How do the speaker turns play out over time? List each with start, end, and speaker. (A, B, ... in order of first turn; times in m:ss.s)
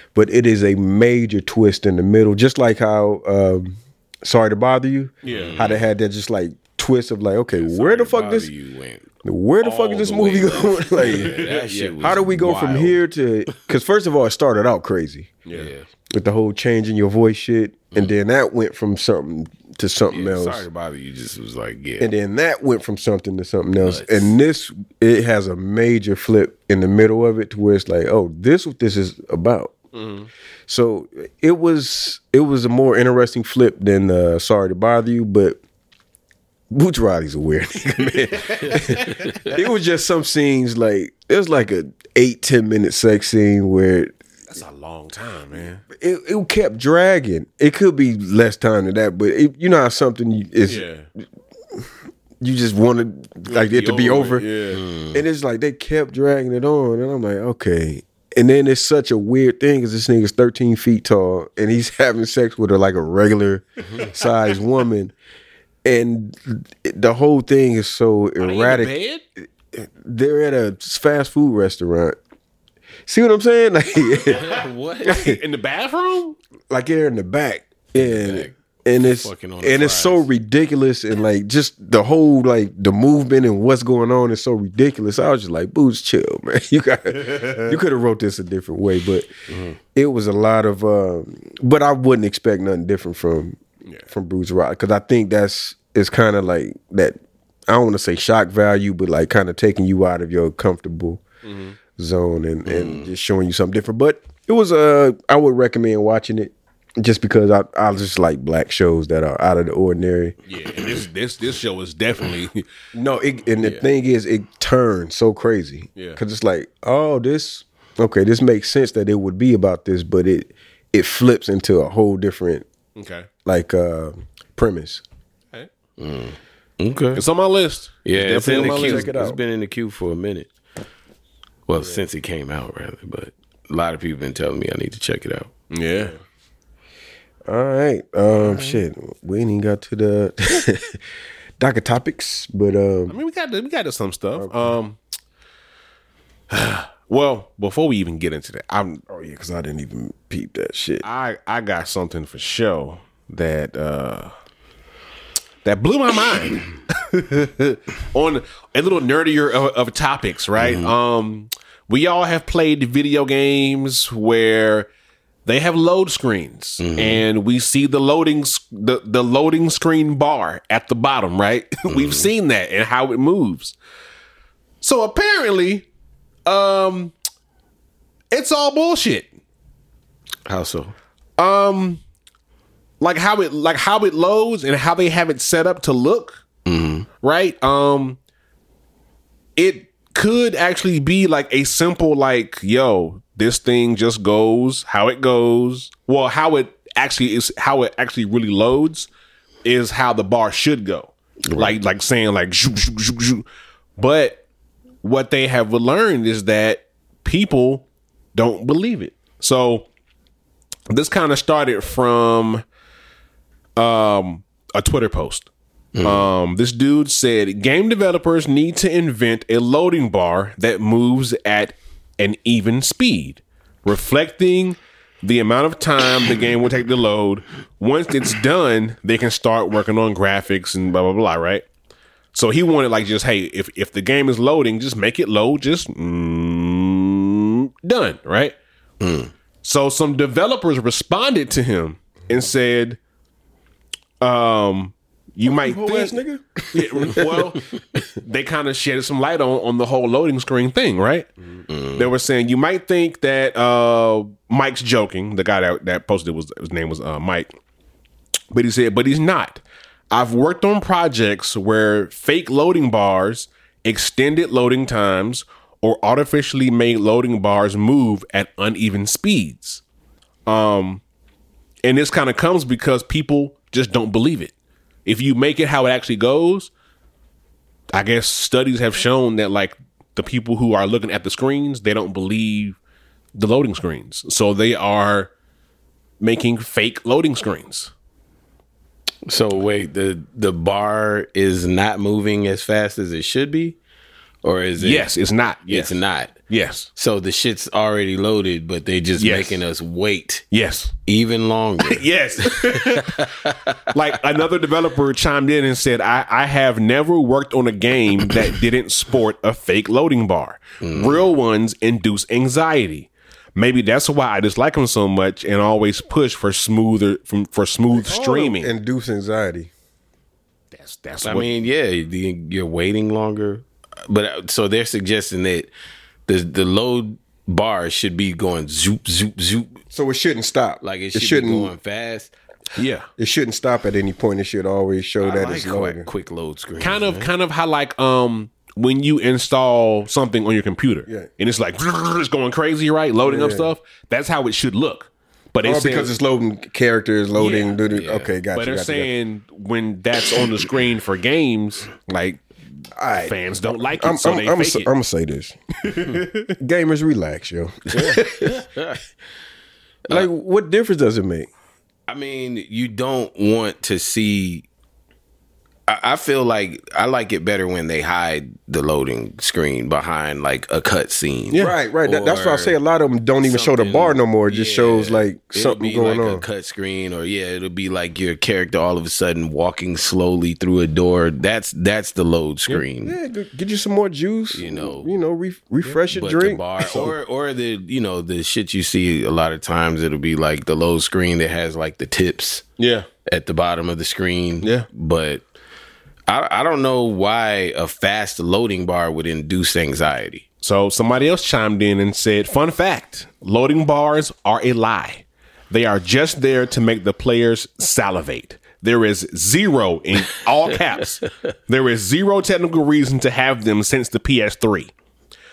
0:00.1-0:08.5 A
0:05.2-0:05.6 B
0:05.2-0:05.9 C
0:07.6-0:09.1 C
0:09.2-0:15.4 A
0:09.6-0:13.0 C
0:11.0-0:12.2 B
0:15.4-0:15.7 B
0:15.5-0:15.9 C
0:16.1-0:20.6 A
0:20.1-0:22.1 C
0:22.0-0:29.8 A
0:23.8-0:24.3 C
0:29.9-0:30.3 B
0:30.7-0:35.6 A
0:36.7-0:44.1 A
0:38.2-0:39.1 B
0:38.6-0:39.5 C
0:44.5-0:45.8 B
0:45.9-0:50.9 A
0:50.7-0:51.1 B
0:52.4-0:54.4 A
0:53.5-0:54.8 B
0:54.7-0:55.2 C
0:55.1-1:05.1 A
1:05.8-1:08.9 A
1:08.4-1:09.2 B
1:09.7-1:12.2 A
1:13.1-1:15.4 A
1:14.3-1:15.2 C
1:15.0-1:16.4 B
1:16.7-1:29.3 A
1:18.0-1:20.2 C
1:27.2-1:27.8 B
1:29.5-1:29.8 C
1:29.9-1:41.2 A
1:41.4-1:41.8 B
1:41.9-1:50.4 A
1:42.7-1:43.1 C
1:50.5-1:52.6 B
1:52.9-2:02.6 A
2:03.0-2:03.3 B
2:03.4-2:05.0 A
2:06.0-2:07.2 C
2:07.1-2:09.1 B
2:08.0-2:10.5 C
2:08.4-2:09.4 A
2:11.7-2:15.5 C
2:11.8-2:12.0 B
2:15.7-2:16.2 B
2:17.5-2:21.0 A
2:18.4-2:18.8 B
2:21.6-2:23.2 A
2:23.1-2:25.0 B
2:24.3-2:24.8 A
2:26.5-2:29.0 B
2:29.1-2:31.0 A
2:31.0-2:34.3 B
2:35.6-2:44.9 B
2:40.6-2:40.9 C
2:45.4-2:53.7 B
2:46.8-2:47.2 C
2:51.9-2:52.3 C
2:54.8-2:55.9 B
2:56.4-2:57.1 B
2:58.3-2:59.3 B
3:00.4-3:00.9 C
3:01.4-3:02.0 B
3:03.0-3:06.4 B
3:06.6-3:07.1 C
3:07.2-3:08.2 B
3:09.6-3:19.1 B
3:19.6-3:23.4 B
3:21.5-3:21.8 C
3:24.0-3:24.4 B
3:25.0-3:29.9 B
3:30.9-3:32.6 B
3:33.8-3:35.5 B
3:35.9-3:36.3 C
3:36.0-3:51.6 B
3:52.3-3:58.5 B
3:59.0-3:59.3 C
3:59.6-4:03.0 B
4:04.2-4:06.2 B
4:05.4-4:07.6 A
4:06.7-4:11.3 B
4:11.7-4:12.1 C
4:12.0-4:17.5 B
4:18.5-4:29.8 B
4:30.5-4:31.0 B
4:31.8-4:34.5 B
4:35.0-4:36.7 B
4:37.9-4:42.8 B
4:43.3-4:45.3 B
4:46.2-4:47.9 B
4:49.3-4:53.8 C
4:54.4-4:55.1 C
4:54.8-4:56.9 B
4:55.7-4:56.3 C
4:57.0-5:00.4 C
4:59.2-4:59.6 B
5:00.5-5:00.9 B
5:01.0-5:03.8 C
5:01.8-5:03.3 B
5:03.9-5:18.7 B
5:10.8-5:11.3 C
5:17.9-5:19.7 A
5:20.7-5:21.6 B
5:21.2-5:25.7 C
5:26.3-5:29.8 C
5:29.9-5:31.7 A
5:30.8-5:32.3 C
5:32.8-5:33.1 B
5:33.2-5:36.1 A
5:35.2-5:37.3 C
5:36.8-5:46.1 B
5:43.2-5:43.7 A
5:45.6-5:49.1 A
5:47.3-5:47.8 B
5:47.9-5:48.3 C
5:48.5-5:52.4 B
5:52.9-5:53.4 A
5:53.2-5:54.9 B
5:53.9-5:55.6 A
5:55.8-5:56.5 B
5:56.6-5:58.6 A
5:57.9-5:59.0 C
6:00.1-6:01.5 A
6:02.1-6:04.6 C
6:05.9-6:12.7 C
6:11.6-6:16.4 A
6:13.4-6:23.2 C
6:23.0-6:27.0 A
6:24.5-6:25.1 C
6:26.1-6:32.6 C
6:26.8-6:27.1 B
6:32.8-6:33.1 B
6:33.3-6:35.5 C
6:34.6-6:34.9 B
6:36.3-6:40.4 C
6:40.6-6:54.9 B